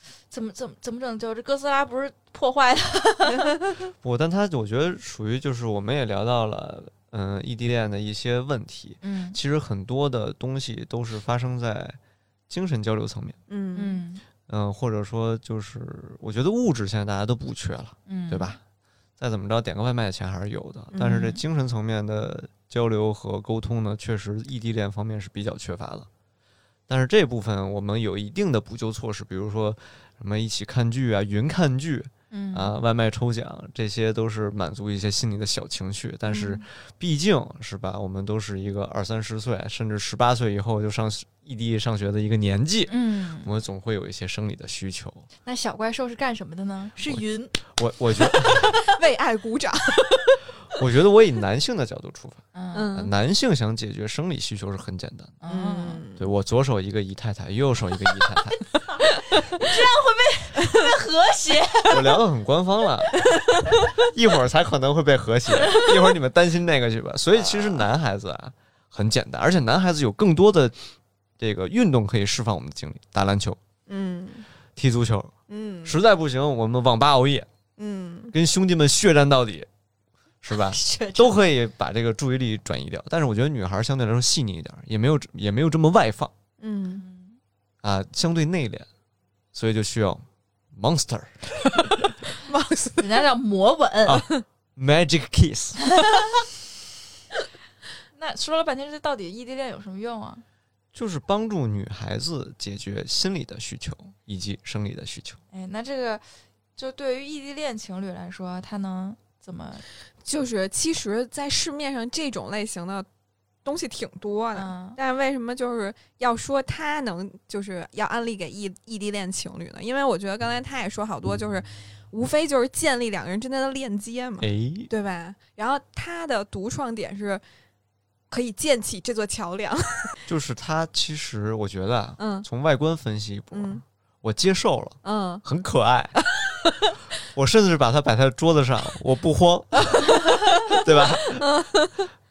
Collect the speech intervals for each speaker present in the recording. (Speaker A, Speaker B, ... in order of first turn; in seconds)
Speaker A: 0.3-3.8, 9.0-9.4, 13.8-14.2, 18.1-18.6, 21.0-21.4, 32.3-32.7, 42.9-43.5, 45.5-47.6, 52.5-52.9, 55.4-56.0, 58.9-62.1, 65.6-66.0, 67.5-67.8, 80.5-81.4, 87.0-87.4, 93.0-94.2, 98.1-100.4, 105.5-106.2, 106.8-109.8, 114.5-115.0
Speaker B: 4.0-12.0, 12.5-13.4, 14.5-18.6, 19.2-26.1, 26.9-45.3, 47.1-48.7, 50.8-55.4, 56.2-58.7, 61.9-63.3, 64.0-70.8, 71.4-73.6, 74.8-75.3, 75.8-77.5, 78.3-79.7, 80.4-86.3, 87.8-88.9, 89.5-92.1, 94.1-95.8, 100.9-105.4, 124.4-124.9, 130.3-136.2, 137.3-141.5
Speaker C: 13.5-14.0, 20.9-21.3, 36.3-36.6, 48.4-50.5, 52.7-53.1, 55.5-56.3, 73.9-74.5, 75.5-76.0, 77.8-78.3, 86.6-87.0, 92.5-93.2, 110.2-113.1, 113.7-127.4, 128.3-130.2, 132.2-132.5, 133.5-133.8, 135.0-135.4, 136.2-137.0, 139.9-140.8, 141.4-142.1